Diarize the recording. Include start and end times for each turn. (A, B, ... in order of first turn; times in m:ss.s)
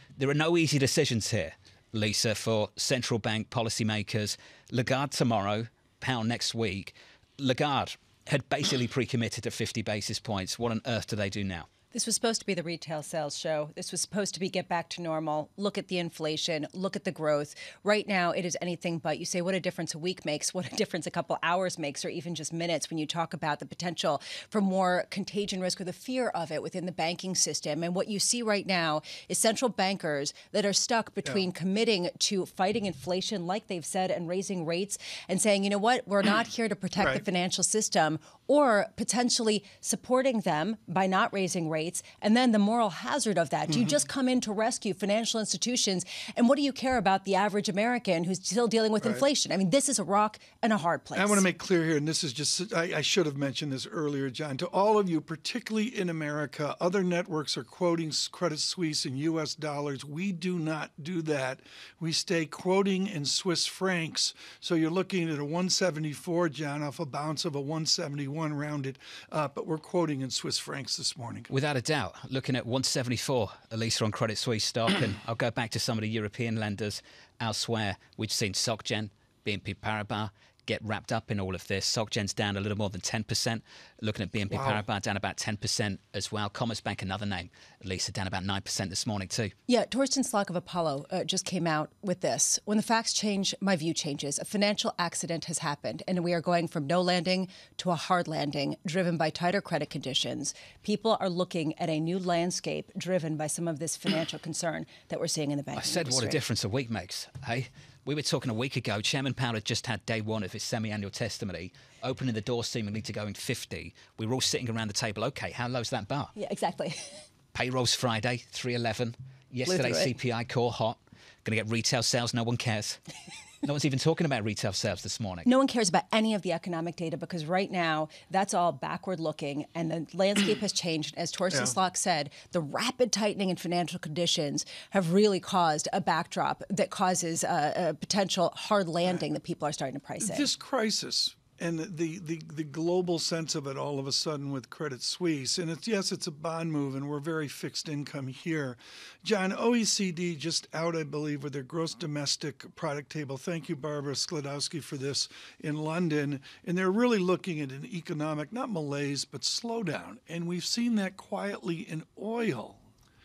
0:00.2-0:11.7 A
0:11.9-0:51.4 B
0:37.0-0:37.2 C
0:43.7-0:44.0 C
0:49.0-0:49.3 C
0:51.2-1:11.5 C
1:11.5-1:29.5 A
1:24.5-1:24.8 C
1:29.7-1:46.4 B
1:45.8-1:56.3 A
1:56.4-1:57.2 B
1:57.5-2:03.0 A
1:59.7-2:00.1 B
2:03.6-2:05.5 A
2:05.4-2:20.5 B
2:20.2-2:42.8 C